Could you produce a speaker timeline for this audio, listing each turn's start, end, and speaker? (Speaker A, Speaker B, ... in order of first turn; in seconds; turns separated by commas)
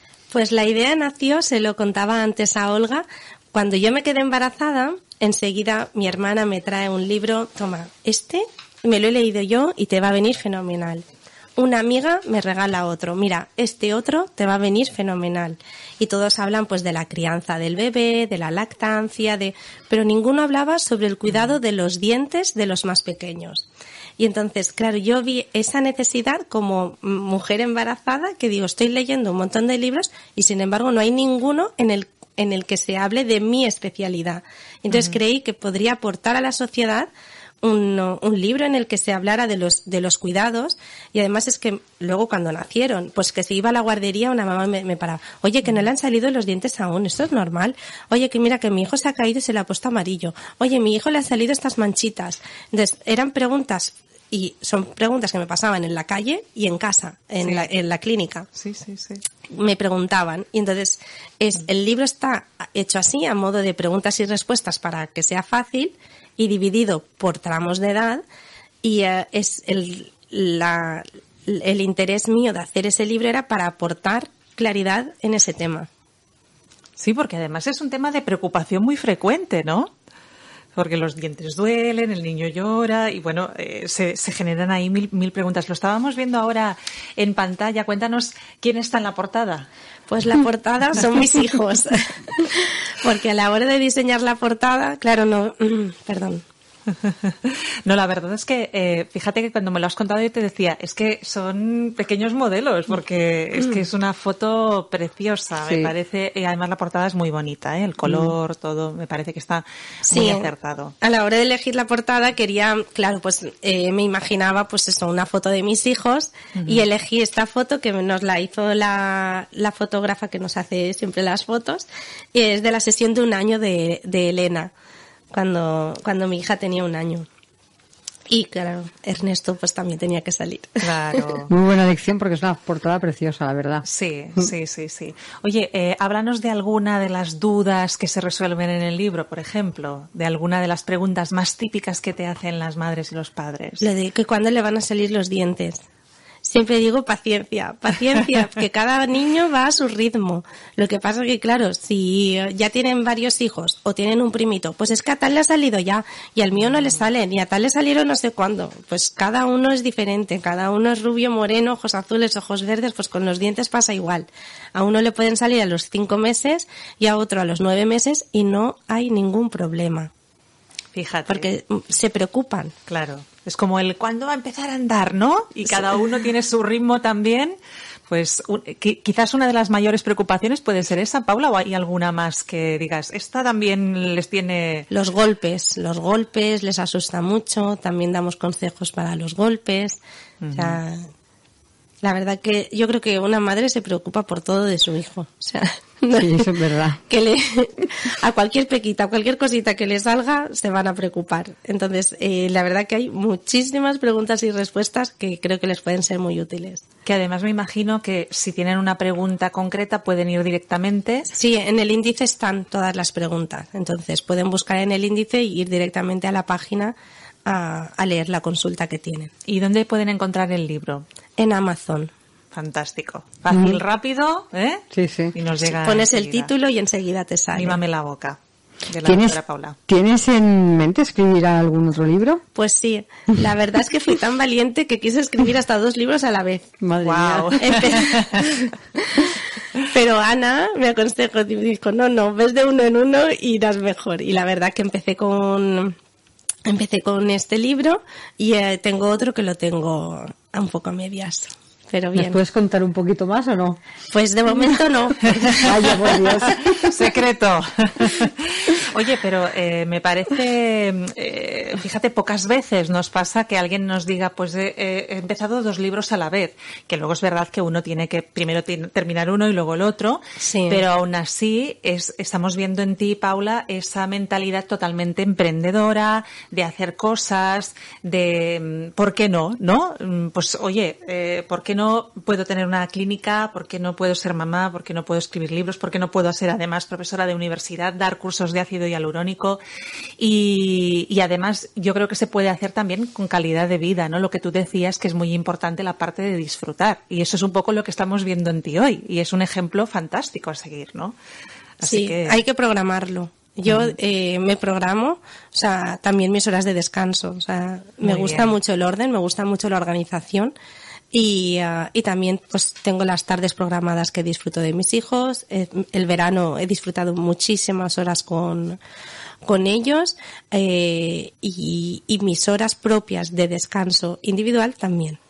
Speaker A: 0.3-11.0, Speaker A: 11.6-23.7, Speaker A: 24.2-37.1, Speaker B: 34.9-35.2, Speaker A: 37.6-58.5, Speaker B: 57.4-57.7, Speaker B: 58.5-59.2, Speaker A: 59.5-68.2, Speaker A: 68.8-75.9, Speaker B: 77.0-79.9, Speaker B: 80.8-89.7, Speaker A: 90.1-96.4, Speaker B: 96.9-110.9, Speaker C: 105.7-105.9, Speaker A: 110.0-110.5, Speaker A: 111.0-124.7, Speaker B: 116.5-116.9, Speaker A: 125.3-127.3, Speaker A: 128.3-131.2, Speaker B: 130.8-131.5, Speaker C: 131.5-133.8, Speaker B: 133.8-143.8, Speaker A: 143.8-145.8, Speaker A: 146.4-170.1, Speaker B: 156.7-157.0, Speaker B: 170.9-171.5, Speaker A: 171.3-172.7, Speaker B: 172.9-177.6, Speaker B: 178.1-184.9, Speaker A: 184.9-190.0, Speaker B: 190.4-190.8, Speaker A: 190.5-191.1, Speaker A: 192.0-196.5, Speaker C: 196.2-197.0, Speaker A: 197.1-206.8, Speaker B: 207.1-211.3, Speaker A: 211.3-219.3, Speaker B: 219.5-221.0, Speaker A: 221.4-222.1, Speaker B: 222.5-226.5, Speaker C: 224.9-225.3, Speaker A: 225.6-227.8, Speaker B: 227.6-229.8, Speaker C: 229.0-232.4, Speaker A: 232.5-236.7, Speaker C: 236.8-238.0, Speaker B: 237.0-238.6, Speaker A: 237.6-238.5, Speaker A: 239.8-245.9, Speaker A: 246.6-252.4, Speaker C: 252.2-253.8, Speaker A: 254.1-256.2, Speaker C: 255.6-256.9, Speaker B: 255.6-255.9, Speaker B: 256.4-289.6, Speaker A: 270.4-270.8, Speaker B: 290.2-301.1, Speaker B: 301.8-302.4, Speaker A: 301.8-310.5, Speaker B: 303.7-303.9, Speaker B: 308.0-308.5, Speaker A: 311.1-318.8, Speaker A: 319.4-325.2